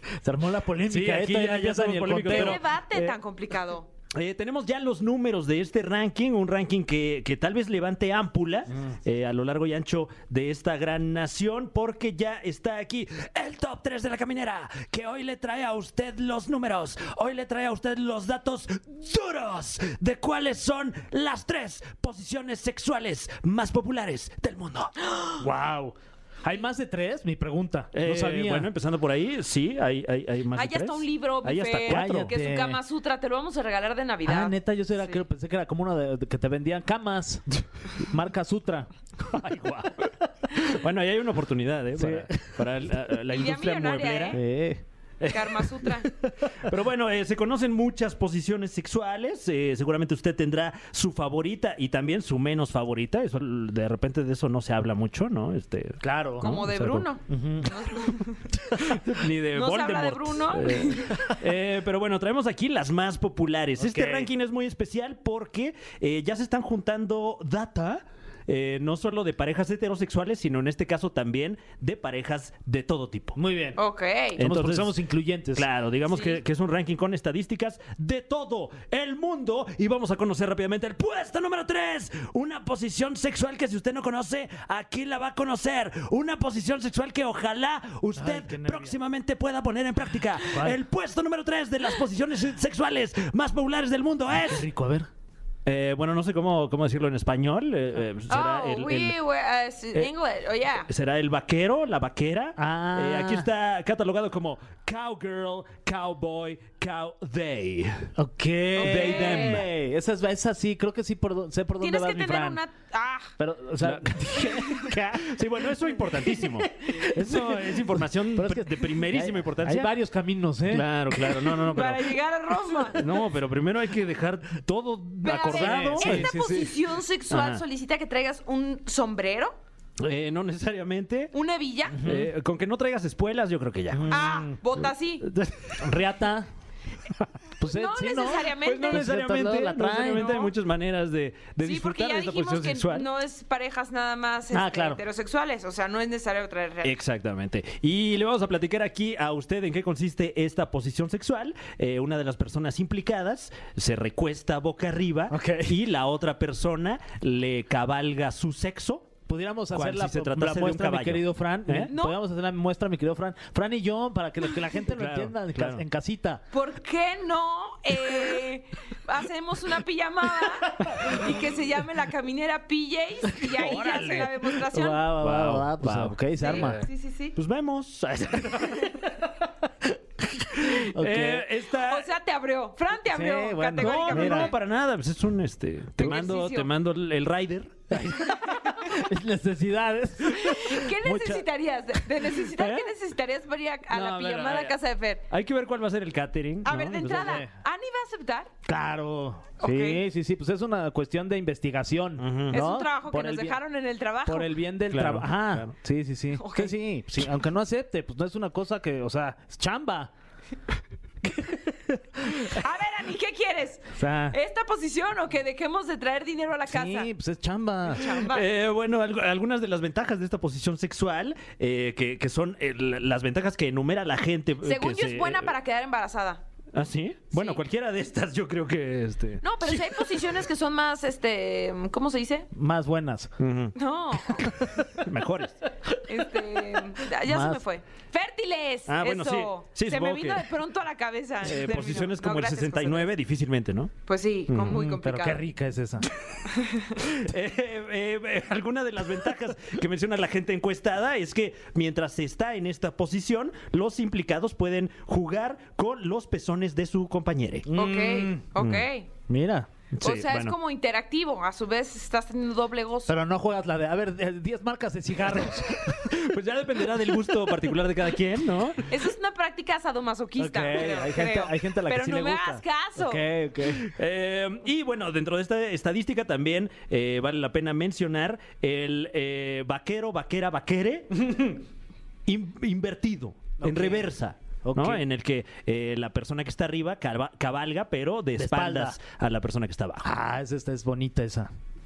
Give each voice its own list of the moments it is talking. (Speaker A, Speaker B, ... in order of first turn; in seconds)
Speaker A: 0.2-2.6, 25.4-28.7, 31.9-32.8, 34.2-38.9, 42.0-42.6, 44.3-44.8, 56.0-56.6, 57.3-57.7, 58.7-59.0, 63.8-64.3, 73.3-73.8, 74.4-75.7, 88.2-89.0, 94.4-95.1, 102.6-103.5, 108.2-112.6, 113.4-115.3, 116.4-117.8, 118.4-121.3, 125.5-126.6, 131.9-132.3, 133.9-134.6, 135.8-136.5, 137.6-140.3, 144.5-145.0, 155.3-155.8, 159.3-166.4, 170.8-171.2, 173.6-176.8, 179.9-181.5, 183.1-184.5, 187.9-191.5, 196.7-197.5, 198.7-203.6, 204.3-210.1, 211.3-212.6, 214.0-214.4, 216.7-218.1, 232.5-233.3, 237.2-237.6, 244.7-246.1, 257.7-258.4, 259.3-259.7, 263.1-266.1, 270.4-273.9, 281.2-281.5, 283.6-285.0, 288.4-289.0, 290.0-291.5
Speaker B: 0.9-3.2, 4.1-24.9, 27.9-32.3, 39.2-44.4, 45.2-57.1, 58.8-73.4, 74.4-75.0, 75.5-94.7, 95.7-99.2, 100.9-108.1, 108.8-109.7, 113.8-119.9, 120.7-122.2, 122.8-127.6, 130.0-131.3, 132.0-135.9, 138.3-143.1, 146.8-159.1, 159.7-161.9, 164.9-165.8, 173.4-174.4, 175.2-179.1, 180.6-182.1, 183.8-188.6, 192.5-192.9, 193.9-194.8, 195.3-197.4, 202.2-202.6, 204.9-205.7, 218.1-225.5, 226.7-230.1, 233.4-233.8, 234.3-235.6, 238.9-240.5, 241.4-243.9, 244.5-244.9, 247.0-257.7, 258.6-258.9, 259.9-260.6, 265.4-268.9, 273.6-281.5, 282.3-290.1
Speaker C: 2.2-3.9, 25.0-25.4, 30.5-35.2, 43.3-44.4, 45.3-46.1, 56.4-58.5, 59.5-61.3, 73.8-74.4, 76.1-76.4, 98.3-100.9, 108.8-109.7, 111.8-113.3, 121.7-123.0, 125.2-129.6, 131.3-132.1, 134.1-135.2, 137.7-139.1, 140.2-140.5, 141.6-146.9, 161.9-162.2, 166.5-175.1, 176.4-177.3, 181.8-184.6, 186.0-186.7, 188.5-189.0, 190.4-195.2, 196.7-198.5, 199.6-200.0, 202.5-204.5, 206.4-206.8, 212.3-217.1, 217.9-218.5, 224.6-226.4, 227.3-227.6, 229.4-232.5, 233.8-234.4, 235.9-243.1, 244.1-245.4, 246.5-247.0, 257.7-259.1, 260.0-263.1, 268.9-273.2